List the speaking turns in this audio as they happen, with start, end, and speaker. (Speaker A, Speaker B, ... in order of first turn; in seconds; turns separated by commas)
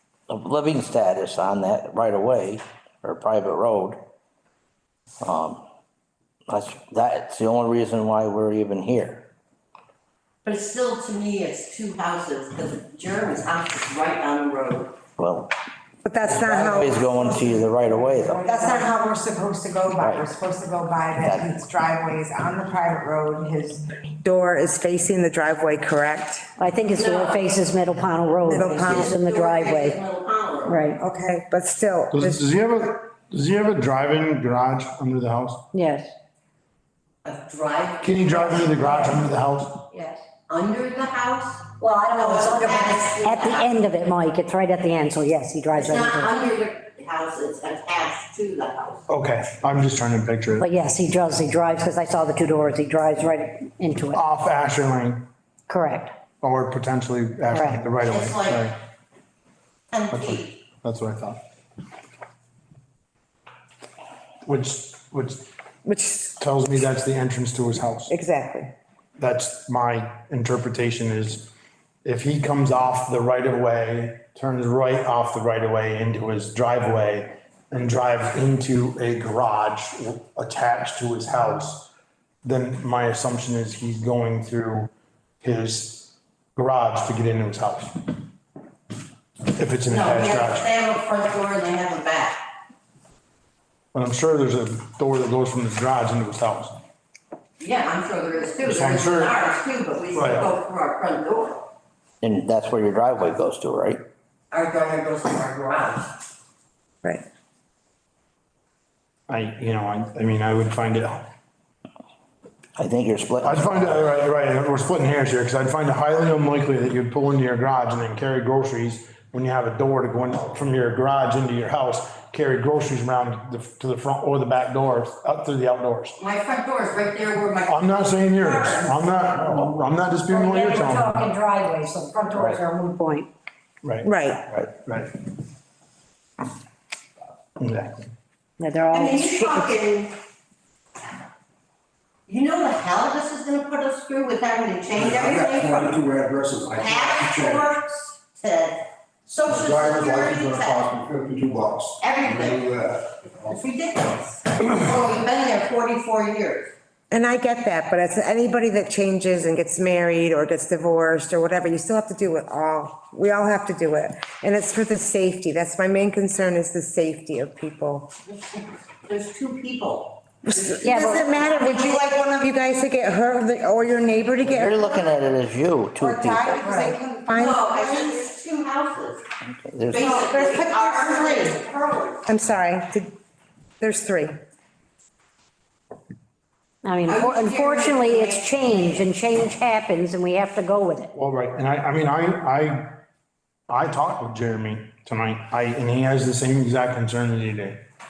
Speaker A: 0.3-4.0, Speaker A: 5.2-5.6, Speaker A: 6.5-9.2, Speaker B: 10.4-14.9, Speaker A: 15.2-15.5, Speaker C: 16.0-26.5, Speaker A: 16.2-18.5, Speaker A: 20.0-20.3, Speaker A: 21.2-21.5, Speaker D: 26.6-30.0, Speaker B: 26.9-27.4, Speaker C: 28.4-29.2, Speaker B: 28.7-30.9, Speaker D: 30.6-31.0, Speaker C: 31.0-32.4, Speaker E: 32.1-35.6, Speaker D: 35.7-36.1, Speaker B: 37.2-39.1, Speaker E: 38.0-39.8, Speaker D: 39.9-40.2, Speaker B: 40.5-43.7, Speaker D: 41.8-46.3, Speaker B: 45.8-49.0, Speaker E: 49.1-50.6, Speaker D: 50.6-54.2, Speaker E: 54.1-55.2, Speaker D: 55.7-56.1, Speaker E: 56.4-58.8, Speaker D: 57.5-57.8, Speaker B: 58.0-58.6, Speaker B: 59.9-60.6, Speaker E: 60.1-61.4, Speaker E: 64.4-65.5, Speaker C: 65.8-66.3, Speaker E: 66.4-68.1, Speaker C: 68.1-68.7, Speaker E: 69.2-71.5, Speaker E: 72.0-81.9, Speaker E: 82.4-88.1, Speaker E: 89.5-90.7, Speaker B: 89.9-92.4, Speaker E: 93.9-96.8, Speaker B: 97.6-101.7, Speaker E: 98.6-99.3, Speaker E: 100.1-100.5, Speaker A: 102.2-104.0, Speaker B: 104.5-106.1, Speaker E: 109.3-111.2, Speaker A: 112.8-114.0, Speaker E: 113.4-126.2, Speaker B: 126.2-129.0, Speaker E: 127.7-131.3, Speaker D: 130.3-133.3, Speaker E: 133.8-135.2, Speaker C: 134.0-134.4, Speaker E: 137.6-138.1, Speaker D: 138.6-139.7, Speaker B: 138.9-140.1, Speaker B: 142.3-146.0, Speaker F: 144.9-147.7, Speaker B: 146.8-151.0, Speaker F: 149.4-153.6, Speaker B: 152.0-152.7, Speaker B: 153.4-156.7, Speaker C: 157.1-168.1, Speaker B: 168.5-172.1, Speaker C: 170.5-175.1, Speaker D: 170.8-171.2, Speaker A: 174.4-176.7, Speaker C: 176.0-178.2, Speaker D: 176.7-176.9, Speaker B: 176.8-179.2, Speaker A: 179.4-180.1, Speaker B: 179.9-182.2, Speaker C: 179.9-181.6, Speaker C: 182.2-183.1, Speaker C: 183.8-184.3, Speaker D: 186.8-191.1, Speaker B: 187.1-189.0, Speaker E: 191.1-192.9, Speaker E: 193.7-197.8